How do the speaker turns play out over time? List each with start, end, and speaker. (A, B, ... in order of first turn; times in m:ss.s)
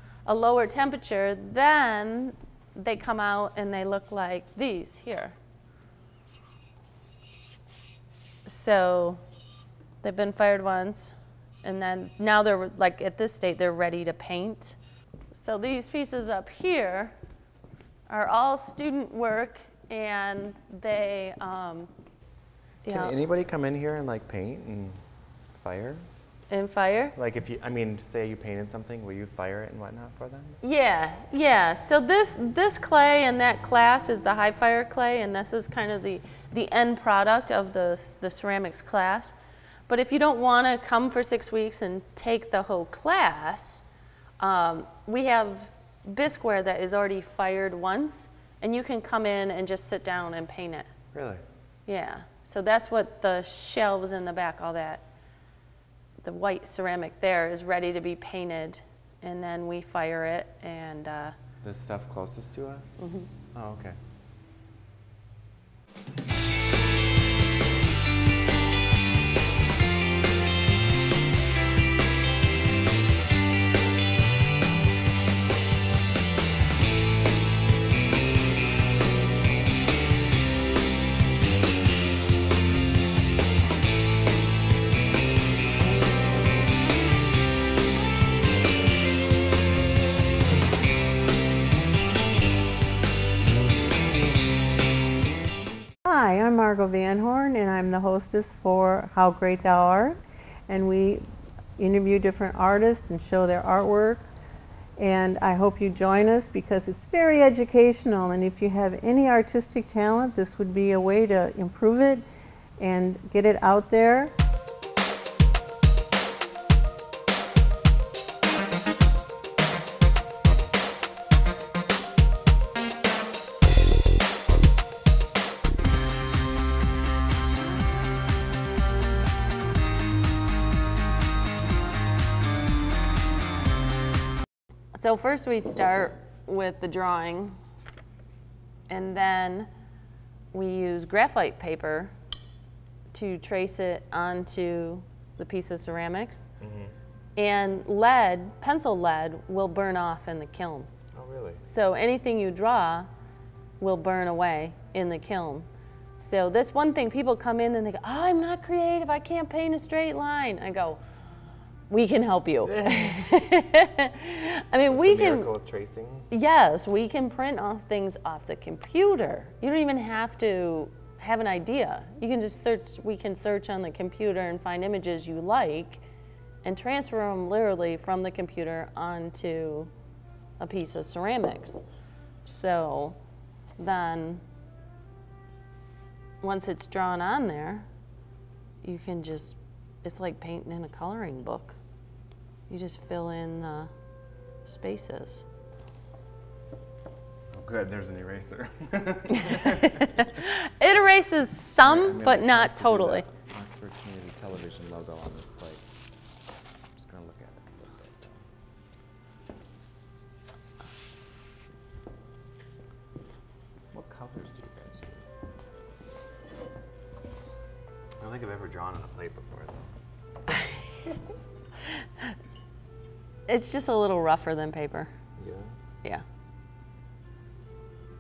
0:00.3-0:05.4 A
0:08.4-0:09.2 A
0:10.0-0:14.8 A
0:15.3-0:17.2 A
0:18.1-0:21.9 A
0:22.8-0:23.2 A
0:22.9-0:25.0 B
0:25.6-0:26.1 B
0:26.5-0:27.2 A
0:27.2-0:30.6 B
0:30.6-0:39.4 A
0:39.9-0:43.8 A
0:44.4-0:50.9 A
0:51.1-0:51.4 B
0:51.9-0:55.0 A
0:56.2-1:01.3 A
1:01.6-1:03.0 B
1:03.0-1:03.3 A
1:03.5-1:04.0 B
1:36.0-1:41.3 C
1:41.8-1:44.2 C
1:45.0-1:52.2 C
1:52.8-1:54.3 C
2:14.9-2:17.6 A
2:18.9-2:19.7 A
2:20.5-2:22.1 A
2:23.1-2:26.5 A
2:26.6-2:27.0 B
2:27.4-2:30.9 A
2:31.2-2:31.6 B
2:31.6-2:33.1 A
2:33.8-2:41.0 A
2:41.9-2:45.5 A
2:42.7-2:43.2 B
2:44.9-2:46.3 B
2:46.3-2:56.0 A
2:56.6-2:59.9 A
3:00.6-3:01.8 A
3:02.4-3:03.2 A
3:03.8-3:04.4 A
3:06.4-3:07.9 A
3:08.8-3:11.8 A
3:12.7-3:13.9 A
3:14.6-3:15.4 A
3:17.5-3:20.1 B
3:19.4-3:23.3 A
3:21.8-3:25.8 B
3:27.0-3:28.4 B
3:33.9-3:35.3 B
3:38.2-3:39.9 B
3:43.5-3:45.1 A
3:45.4-3:45.7 B